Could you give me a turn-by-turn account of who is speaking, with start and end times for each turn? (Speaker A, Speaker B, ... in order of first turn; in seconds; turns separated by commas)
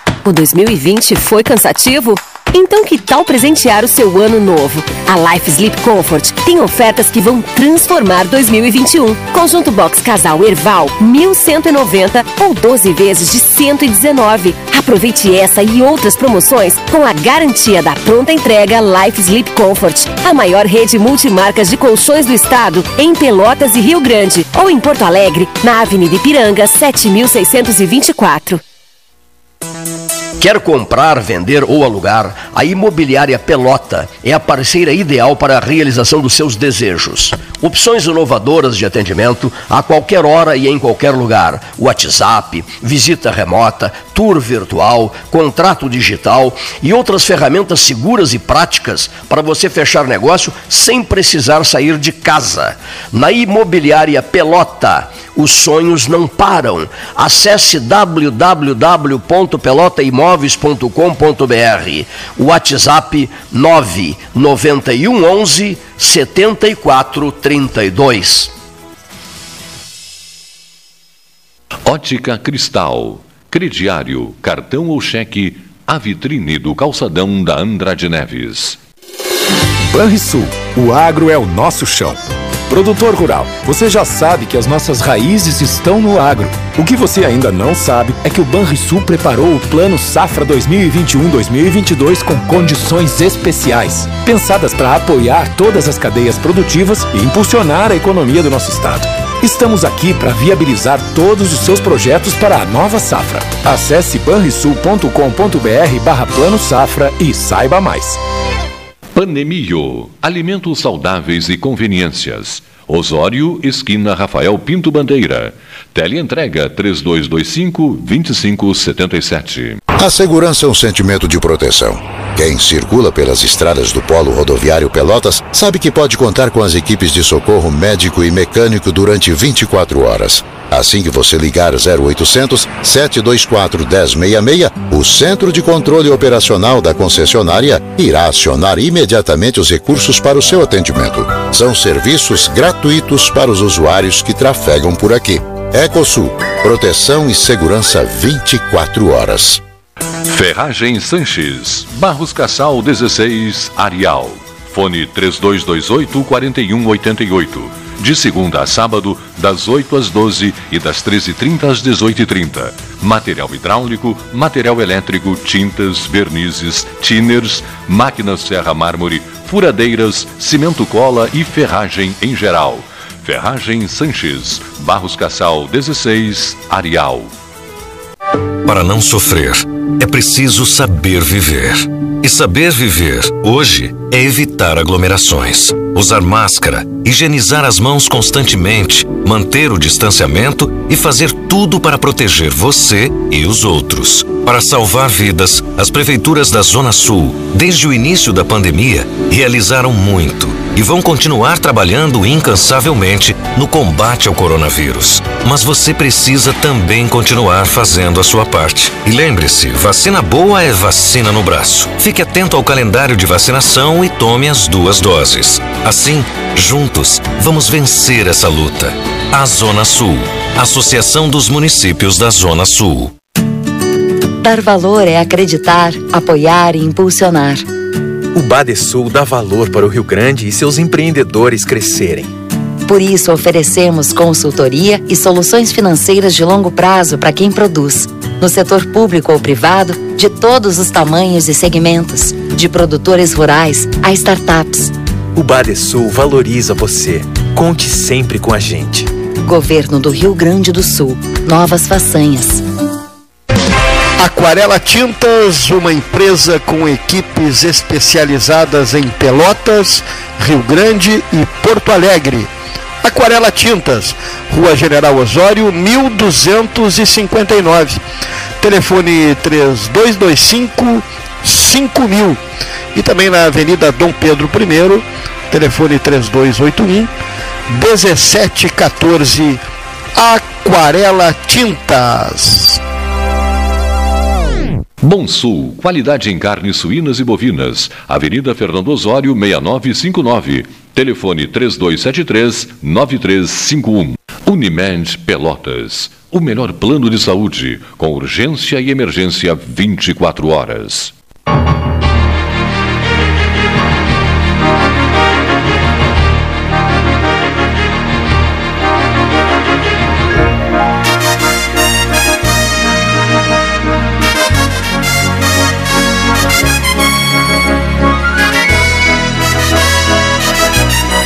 Speaker A: 0.2-28.6, Speaker B: 30.4-68.5, Speaker C: 71.8-78.8, Speaker D: 79.9-108.2, Speaker C: 109.1-119.8, Speaker E: 120.0-149.6, Speaker C: 150.2-177.3, Speaker F: 178.6-223.1, Speaker G: 224.4-227.7, Speaker H: 228.3-232.3, Speaker G: 232.8-244.9, Speaker H: 245.3-249.1, Speaker G: 249.4-252.6, Speaker I: 254.2-268.0, Speaker I: 268.6-272.4, Speaker I: 272.9-277.1, Speaker I: 277.7-282.8, Speaker C: 285.0-301.1